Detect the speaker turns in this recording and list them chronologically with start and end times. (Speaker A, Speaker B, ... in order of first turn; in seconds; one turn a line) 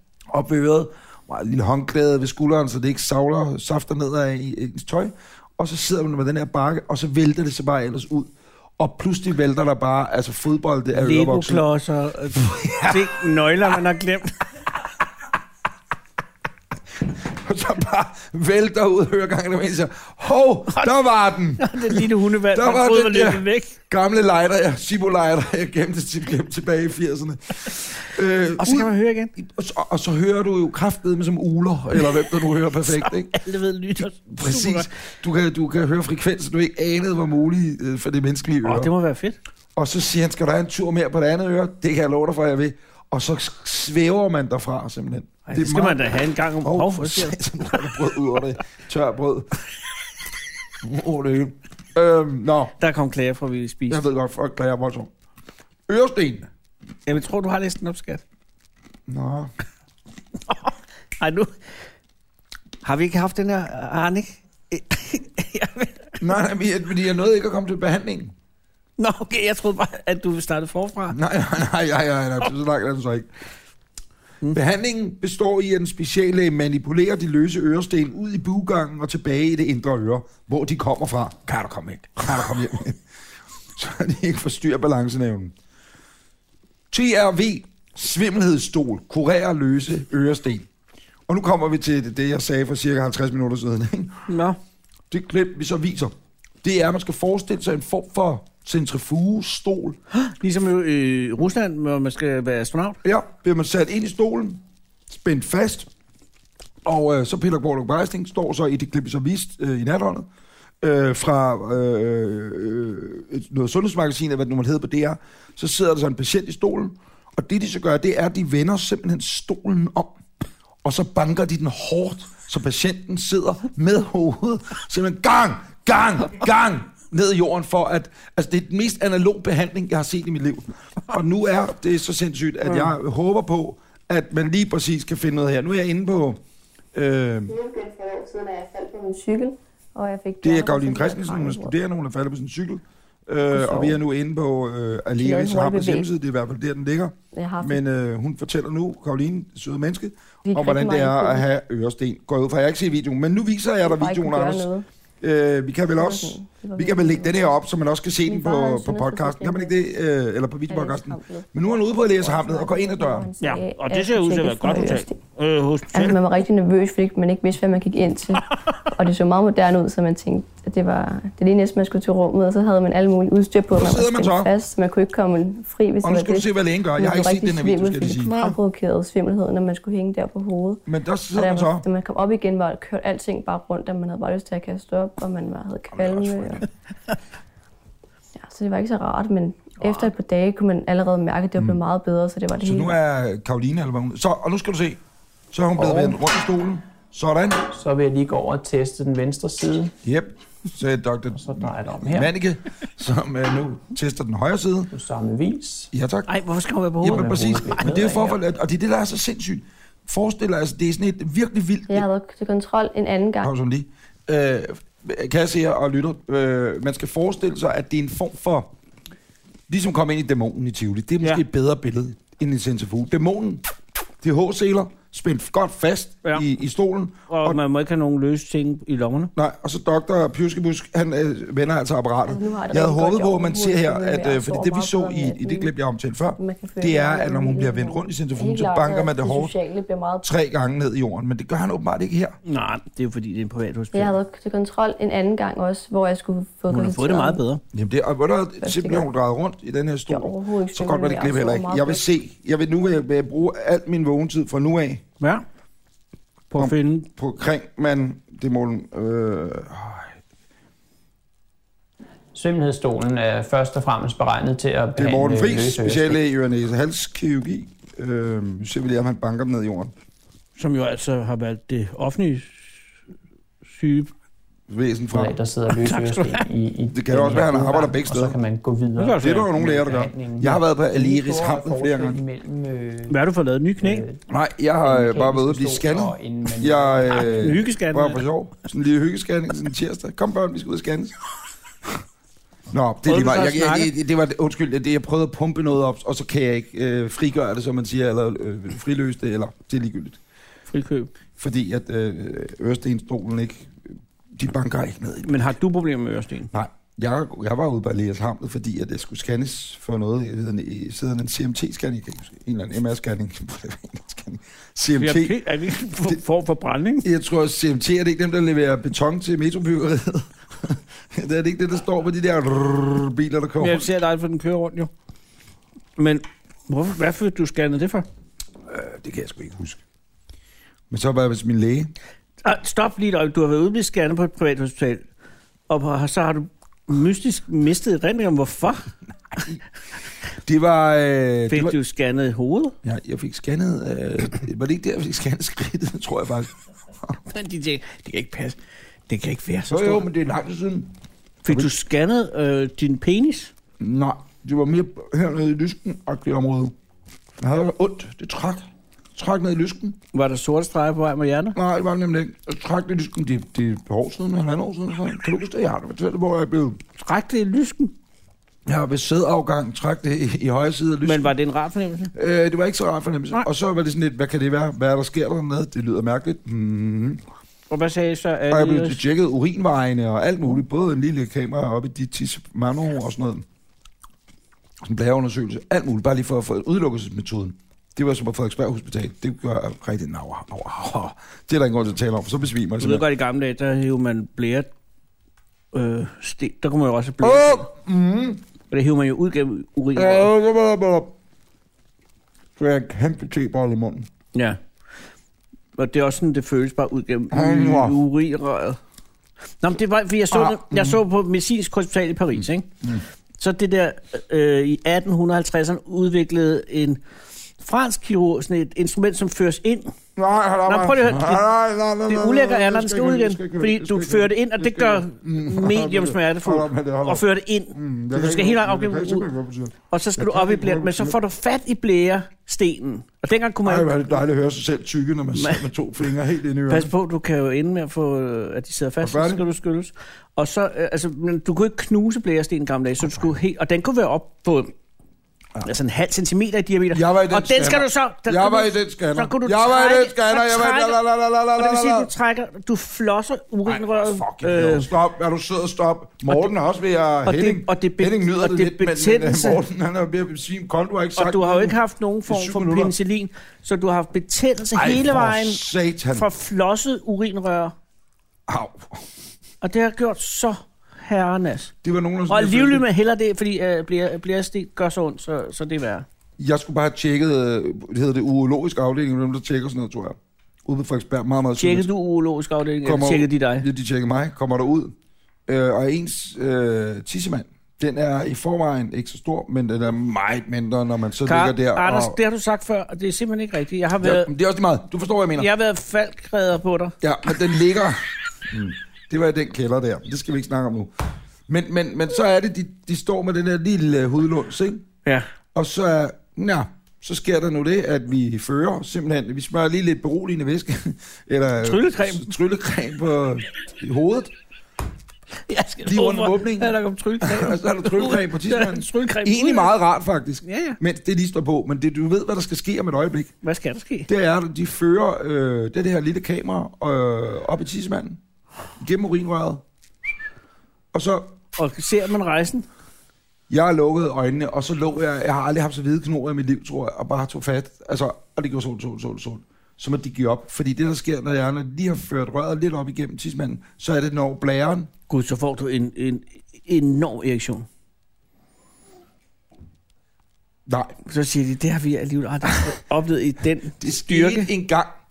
Speaker A: 0.3-11.7
Speaker B: 10.9-14.3
Speaker A: 12.3-13.1
Speaker A: 17.0-33.3
Speaker B: 21.6-23.8
Speaker B: 28.6-29.3
Speaker B: 32.0-34.9
Speaker A: 34.3-38.9
Speaker B: 38.6-39.4
Speaker A: 39.8-49.5
Speaker B: 45.5-47.9
Speaker A: 50.8-52.7
Speaker B: 52.8-54.0
Speaker A: 53.9-55.1
Speaker A: 55.9-56.5
Speaker B: 57.1-58.2
Speaker A: 59.1-59.5
Speaker B: 60.5-61.5
Speaker B: 62.8-66.2
Speaker A: 66.2-68.3
Speaker B: 69.0-71.2
Speaker A: 71.1-73.3
Speaker A: 74.5-83.0
Speaker A: 83.7-85.5
Speaker A: 86.9-90.7
Speaker A: 91.3-94.3
Speaker B: 94.3-94.6
Speaker A: 95.1-100.0
Speaker B: 100.1-103.0
Speaker A: 103.0-105.9
Speaker A: 106.8-110.3
Speaker A: 110.8-120.2
Speaker A: 120.8-136.4
Speaker A: 136.9-137.5
Speaker C: 137.5-141.7
Speaker A: 140.4-154.7
Speaker C: 143.5-144.0
Speaker C: 145.2-146.1
Speaker C: 147.3-147.8
Speaker C: 150.4-151.4
Speaker C: 153.8-154.8
Speaker A: 155.2-163.3
Speaker C: 155.9-157.6
Speaker C: 158.2-159.7
Speaker C: 160.7-165.2
Speaker B: 163.4-166.2
Speaker C: 165.9-186.6
Speaker A: 173.7-174.5
Speaker A: 176.0-178.3
Speaker B: 178.3-178.6
Speaker A: 180.8-181.8
Speaker A: 185.9-186.7
Speaker C: 188.4-192.9
Speaker B: 189.8-190.1
Speaker A: 192.6-195.0
Speaker A: 195.5-197.6
Speaker D: 195.8-196.2
Speaker D: 197.7-199.9
Speaker A: 200.0-204.9
Speaker D: 201.3-202.3
Speaker D: 204.9-205.9
Speaker A: 205.9-206.3
Speaker B: 206.3-208.4
Speaker A: 207.0-212.1
Speaker D: 207.0-208.2
Speaker C: 211.9-213.5
Speaker A: 213.4-218.7
Speaker A: 219.7-223.6
Speaker A: 224.2-227.6
Speaker B: 227.3-229.3
Speaker A: 229.3-239.5
Speaker C: 232.3-235.7
Speaker C: 236.4-240.3
Speaker A: 240.2-242.3
Speaker B: 242.4-244.1
Speaker C: 243.9-247.4
Speaker B: 246.7-247.6
Speaker A: 247.7-255.0
Speaker C: 248.6-249.1
Speaker C: 250.1-252.0
Speaker B: 256.5-257.1
Speaker A: 256.6-260.1
Speaker D: 262.3-266.2
Speaker A: 264.9-269.9
Speaker B: 270.6-272.7
Speaker B: 273.7-274.1
Speaker A: 274.7-275.4
Speaker D: 275.1-283.2
Speaker B: 275.7-276.4
Speaker A: 276.9-278.4
Speaker B: 279.0-279.5
Speaker A: 279.2-282.2
Speaker B: 283.1-284.0
Speaker D: 283.8-284.2
Speaker A: 284.3-291.1
Speaker D: 284.8-287.6
Speaker B: 287.1-288.2
Speaker A: 292.7-300.2
Speaker B: 293.0-293.9
Speaker B: 300.7-301.1
Speaker A: 301.4-303.7
Speaker A: 304.3-305.3
Speaker B: 305.2-306.5
Speaker A: 306.5-315.4
Speaker B: 315.0-317.1
Speaker A: 317.0-323.9
Speaker B: 323.6-324.9
Speaker B: 326.0-328.1
Speaker A: 328.7-329.8
Speaker A: 330.9-331.9
Speaker B: 332.4-335.0
Speaker B: 335.7-338.9
Speaker A: 340.4-341.8
Speaker B: 341.5-342.7
Speaker A: 342.8-346.5
Speaker B: 347.2-348.6
Speaker B: 349.1-350.1
Speaker A: 349.7-350.9
Speaker B: 351.4-353.5
Speaker A: 351.5-351.7
Speaker A: 353.8-356.7
Speaker A: 357.4-360.0
Speaker B: 360.1-361.6
Speaker A: 361.5-366.8
Speaker B: 367.0-367.9
Speaker A: 368.6-371.3
Speaker B: 371.0-372.1
Speaker A: 372.1-377.2
Speaker B: 377.7-379.0
Speaker A: 378.5-383.4
Speaker A: 384.8-393.0
Speaker B: 392.8-394.7
Speaker B: 395.7-397.7
Speaker A: 397.2-398.4
Speaker B: 398.7-400.3
Speaker A: 399.9-401.1
Speaker A: 402.6-404.1
Speaker B: 404.3-404.6
Speaker B: 405.8-408.8
Speaker A: 407.3-408.0
Speaker B: 409.6-412.7
Speaker A: 410.3-411.0
Speaker B: 413.4-417.0
Speaker B: 417.6-419.9
Speaker A: 420.1-431.1
Speaker B: 420.6-421.5
Speaker B: 422.1-429.3
Speaker B: 429.9-433.9
Speaker A: 433.6-436.9
Speaker B: 435.4-435.6
Speaker B: 436.7-444.7
Speaker A: 439.0-439.4
Speaker B: 445.6-451.0
Speaker A: 446.9-452.1
Speaker B: 451.5-454.9
Speaker A: 453.6-462.9
Speaker B: 457.2-459.6
Speaker B: 461.1-467.7
Speaker A: 464.7-466.3
Speaker A: 468.5-469.0
Speaker B: 469.6-471.7
Speaker A: 471.8-472.9
Speaker B: 472.3-476.1
Speaker A: 476.4-481.9
Speaker B: 481.6-483.7
Speaker A: 482.8-484.9
Speaker A: 485.5-492.2
Speaker B: 491.2-494.3
Speaker A: 494.0-495.5
Speaker B: 495.4-497.3
Speaker A: 497.0-500.9
Speaker A: 501.5-504.9
Speaker A: 505.5-514.3
Speaker B: 511.6-512.3
Speaker B: 515.5-519.7
Speaker A: 515.8-523.3
Speaker B: 520.4-520.8
Speaker B: 523.4-524.1
Speaker A: 524.1-528.2
Speaker A: 528.8-529.6
Speaker A: 530.9-531.4
Speaker B: 531.5-532.7
Speaker A: 533.5-544.9
Speaker B: 545.1-547.7
Speaker A: 550.7-551.0
Speaker B: 551.0-554.5
Speaker A: 553.8-554.9